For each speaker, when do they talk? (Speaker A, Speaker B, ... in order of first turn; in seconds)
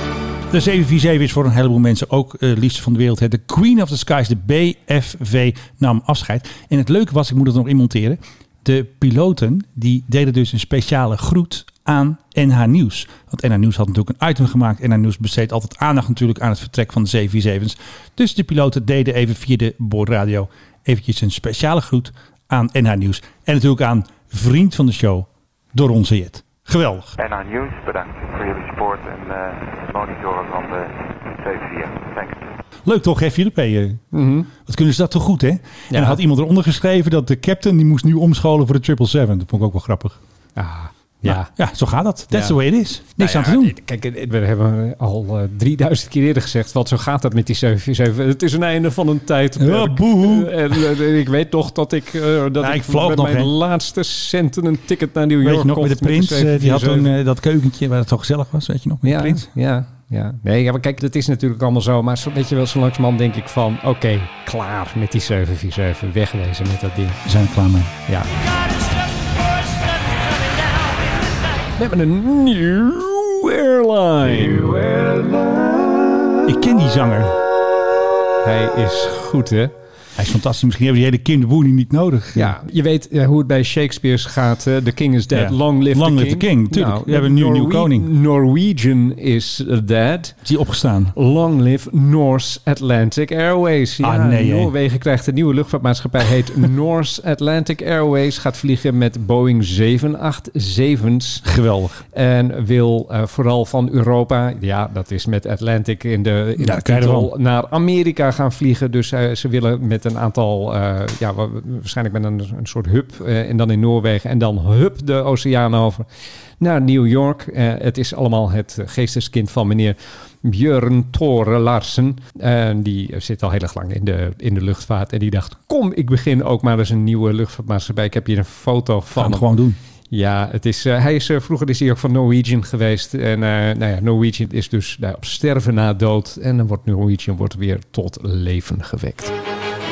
Speaker A: 0.5-27.1, 32.9-34.0, 34.7-40.2, 41.2-43.7, 49.6-50.9, 52.6-53.5, 55.4-59.5, 67.2-67.9, 76.5-77.4, 80.2-82.5, 85.3-88.1, 90.5-91.1, 94.0-94.7, 101.5-102.0, 106.6-107.3, 129.2-129.8
Speaker B: 27.2-32.4
Speaker C: 34.1-34.5, 35.9-36.2, 40.6-41.5, 42.3-57.1, 59.0-67.2, 71.8-75.5, 78.4-79.7, 82.3-90.4, 91.1-101.5, 102.1-116.1, 116.6-129.5, 130.1-139.3